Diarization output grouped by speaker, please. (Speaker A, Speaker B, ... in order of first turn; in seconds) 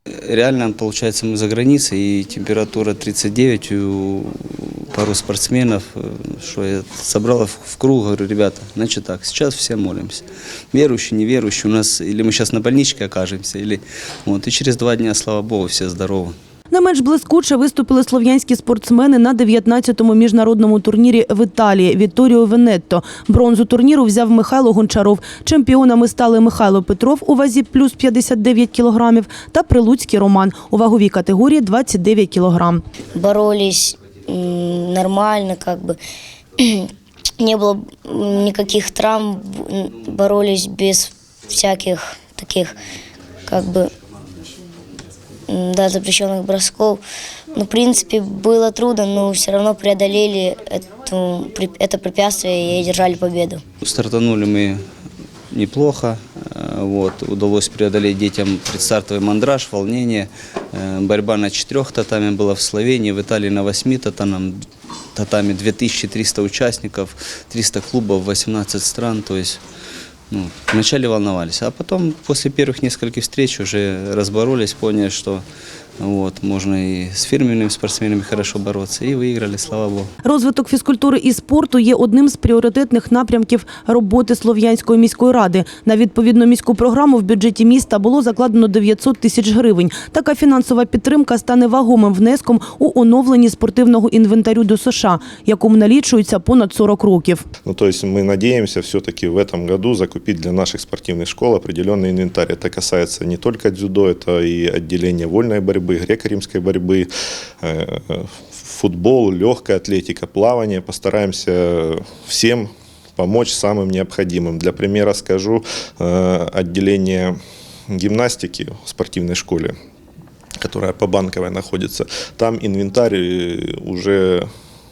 Speaker A: 0.2-16.4, 53.8-54.8, 55.5-64.6, 65.2-69.6, 70.3-75.4, 76.0-80.1
Speaker B: 16.7-32.8, 80.2-97.5
Speaker C: 33.1-36.0, 36.6-36.9, 37.4-42.8, 43.5-43.9, 45.5-47.0, 47.5-53.6
Speaker D: 97.7-107.1, 107.6-117.4, 117.9-119.8, 120.6-124.5